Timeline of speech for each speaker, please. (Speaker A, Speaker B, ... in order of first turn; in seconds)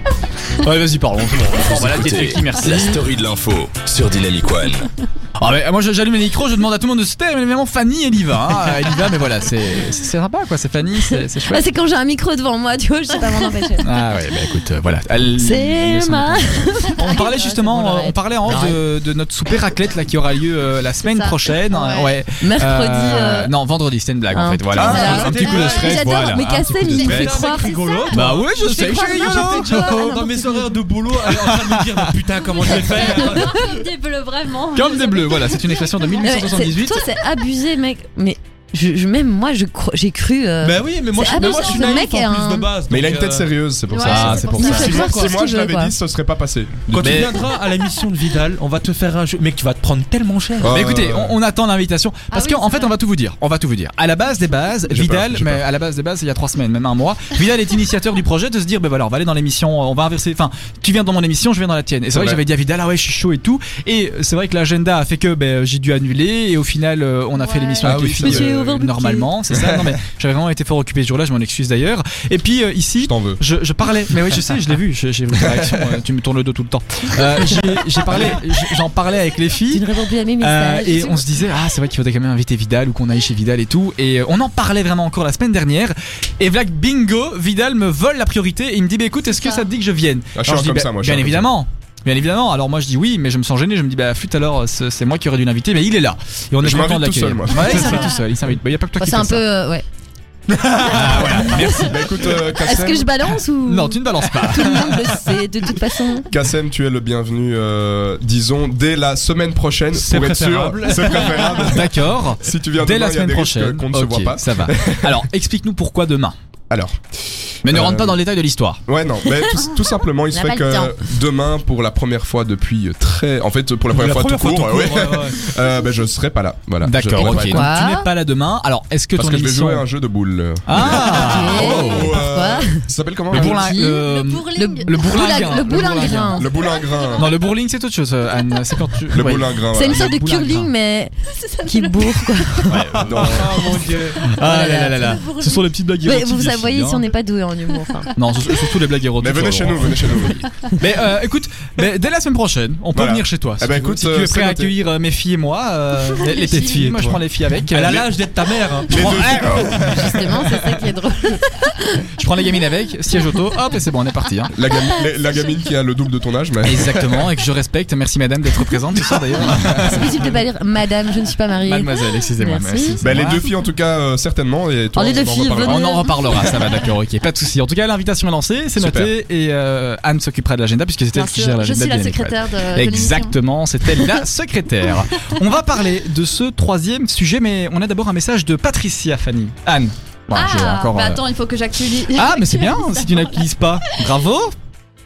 Speaker A: 0.6-3.0, 5.4-11.6, 13.8-27.4, 28.1-30.1, 31.2-32.1, 34.7-37.1, 44.0-44.9, 50.7-79.9, 80.4-99.4, 100.7-102.4, 103.6-105.4, 111.6-116.3, 117.6-118.8, 126.8-129.9, 130.7-132.2, 133.3-136.5, 137.2-140.7, 142.7-147.1, 148.1-158.1, 158.9-160.1, 162.2-164.5, 166.7-170.4, 171.6-173.4, 175.6-191.2, 192.1-194.5
Speaker B: 1.7-4.9
Speaker C: 11.4-14.1, 15.4-18.8, 22.4-23.5, 24.3-28.0, 28.9-30.7, 36.2-42.7, 44.6-45.9, 68.2-69.3, 79.7-81.2, 99.0-99.8, 101.0-106.3, 120.3-121.0, 127.2-128.1, 130.8-136.5, 139.7-142.9, 143.6-148.1, 159.8-162.1, 169.8-173.1, 175.0-176.7
Speaker D: 21.0-22.2, 24.9-26.0, 27.0-28.1, 32.6-36.3, 43.9-45.3, 52.3-52.9, 67.4-68.0, 134.0-135.9, 136.4-137.3, 141.3-142.5, 156.2-157.0, 181.1-183.4, 190.3-193.5
Speaker E: 24.7-25.1, 42.9-47.4, 50.6-51.4, 54.9-55.6, 62.1-62.4, 67.8-68.5, 69.5-70.0, 73.0-73.4, 75.4-75.7, 78.1-78.4, 90.3-91.5, 96.6-98.0, 101.3-103.1, 106.3-115.2, 116.7-117.0, 117.6-118.2, 118.8-127.7, 129.2-133.7, 136.3-137.4, 139.1-140.1, 143.0-143.8, 149.2-150.5, 152.9-154.7, 158.9-160.2, 164.5-167.3, 173.0-175.9, 178.8-179.1
Speaker F: 24.8-33.6, 40.6-43.5, 44.9-45.2, 46.9-50.8, 109.9-111.8, 123.9-125.5, 143.0-144.3, 157.7-159.6